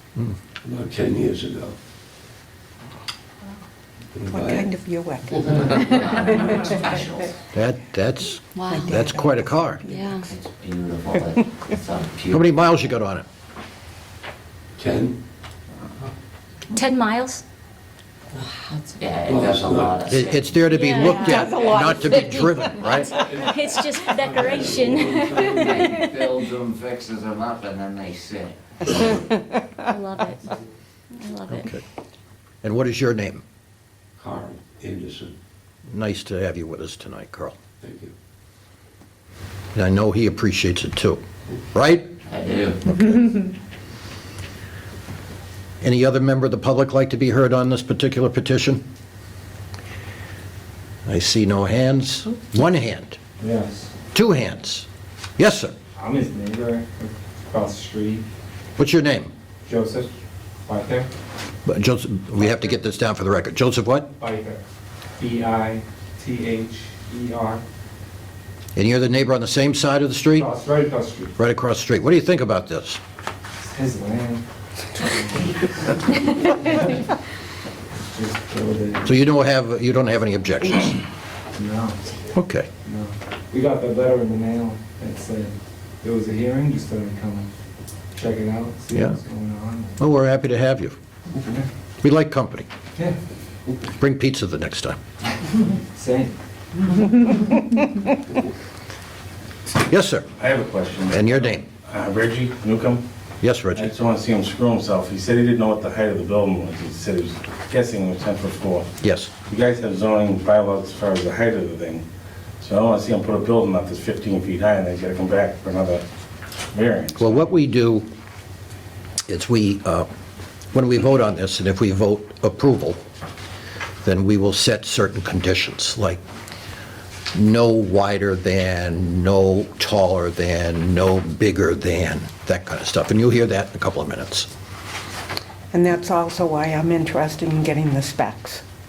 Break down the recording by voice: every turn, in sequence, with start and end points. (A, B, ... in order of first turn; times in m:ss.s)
0:00.6-0:01.8 A
0:04.2-0:04.7 A
0:04.3-0:06.2 B
0:05.4-0:07.4 C
0:07.5-0:09.8 D
0:08.6-0:09.0 E
0:08.7-0:10.2 B
0:09.8-0:10.3 E
0:10.3-0:12.5 C
0:12.3-0:13.3 D
0:14.8-0:15.2 A
0:16.7-0:17.4 E
0:18.9-0:20.6 C
0:19.2-0:20.1 A
0:20.1-0:23.3 D
0:20.7-0:22.0 E
0:20.9-0:23.2 B
0:22.9-0:26.3 E
0:23.2-0:23.5 A
0:24.2-0:26.0 A
0:25.4-0:29.2 C
0:29.8-0:30.6 E
0:31.1-0:31.7 E
0:31.5-0:31.8 D
0:32.6-0:33.4 D
0:34.2-0:35.4 A
0:35.9-0:37.6 D
0:37.8-0:38.1 A
0:39.7-0:42.1 D
0:42.3-0:43.0 C
0:43.0-0:43.4 D
0:45.8-0:48.8 D
0:51.1-0:53.2 D
0:53.4-0:53.9 F
0:54.1-0:55.8 D
0:56.0-0:58.2 F
0:58.8-0:59.3 D
0:59.7-1:00.1 F
1:00.7-1:01.1 F
1:01.7-1:04.1 D
1:04.1-1:04.6 F
1:05.2-1:07.6 F
1:08.8-1:10.5 D
1:10.4-1:11.3 F
1:11.4-1:13.0 D
1:13.7-1:14.4 F
1:15.0-1:16.9 F
1:18.0-1:19.1 F
1:19.0-1:21.0 D
1:21.6-1:22.0 F
1:22.4-1:22.7 D
1:22.8-1:27.5 F
1:28.1-1:30.0 F
1:28.9-1:29.2 D
1:30.0-1:31.0 D
1:32.0-1:32.7 D
1:34.0-1:35.0 D
1:36.0-1:36.3 F
1:39.8-1:40.3 D
1:40.4-1:43.1 G
1:41.1-1:41.6 D
1:43.4-1:43.9 D
1:43.7-1:48.9 G
1:49.0-1:49.3 D
1:49.5-1:52.1 G
1:52.6-1:56.0 G
1:56.7-1:57.4 G
1:57.2-1:58.1 D
1:59.3-2:00.1 D
2:00.7-2:03.0 D
2:04.0-2:06.2 D
2:07.3-2:14.5 D
2:15.7-2:18.6 B